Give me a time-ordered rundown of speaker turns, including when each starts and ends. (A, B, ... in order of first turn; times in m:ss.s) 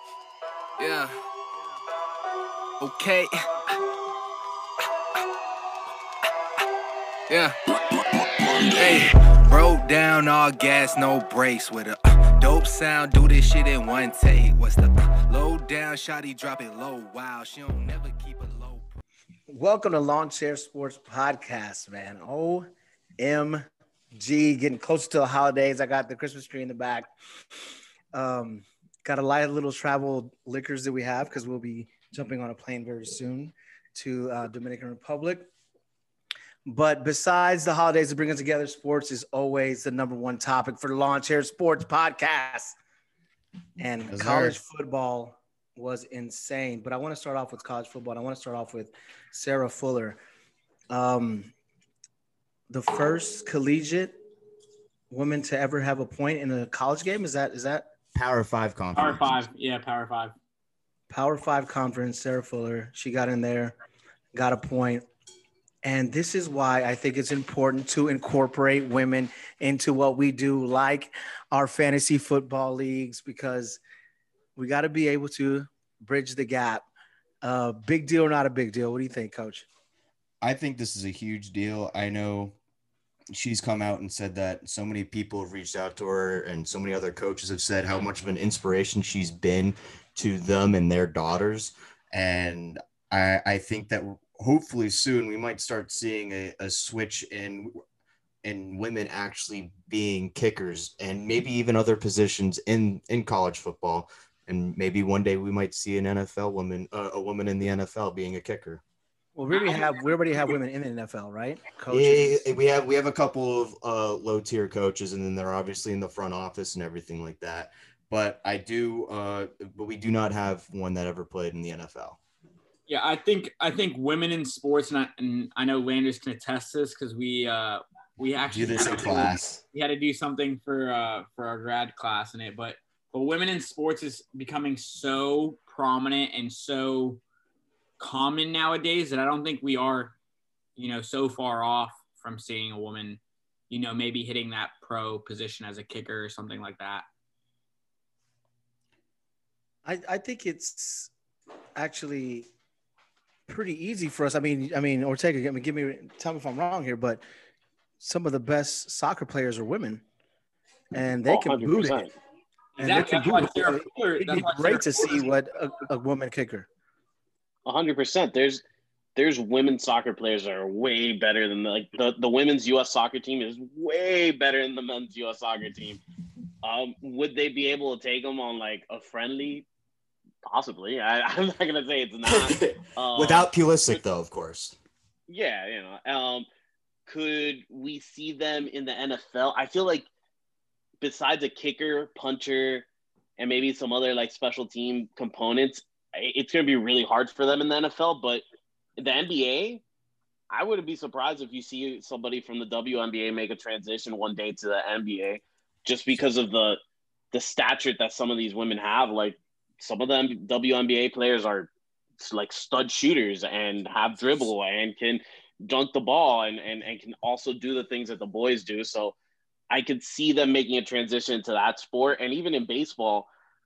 0:00.8-0:01.2 A
0:02.8-0:03.4 A
0:07.3-0:18.9 A
0:19.5-0:22.7 B
0:23.2-0:27.1 B
0:28.1-0:35.5 B
0:36.6-0:42.8 B
0:43.8-0:50.2 B
0:44.1-0:44.6 C
0:50.9-0:51.5 B
0:52.7-0:54.1 B
0:55.1-0:57.8 B
0:58.1-0:59.2 C
0:58.9-1:00.3 D
1:01.1-1:03.7 B
1:04.3-1:05.0 B
1:05.8-1:13.8 B
1:14.6-1:16.8 B
1:17.4-1:19.7 B
1:20.4-1:22.6 C
1:23.3-1:37.7 C
1:38.4-1:48.8 C
1:49.3-1:52.5 B
1:51.9-2:02.2 C
2:02.9-2:17.2 D
2:08.5-2:09.6 C
2:18.0-2:20.1 D
2:20.8-2:27.0 D
2:29.8-2:31.1 B
2:31.8-2:32.5 B
2:33.5-2:37.2 B
2:38.0-2:40.0 B
2:40.9-2:42.1 B
2:41.3-2:42.1 E
2:42.8-2:46.7 B
2:42.8-2:45.3 D
2:47.6-2:48.6 E
2:49.2-2:56.0 E
2:56.6-2:59.6 E
3:00.4-3:04.0 E
3:02.2-3:04.8 C
3:05.3-3:06.5 E
3:07.1-3:10.1 E
3:11.0-3:12.8 E
3:13.4-3:18.4 E
3:19.0-3:19.8 E
3:20.5-3:26.8 E
3:27.3-3:39.1 E
3:39.7-3:43.3 E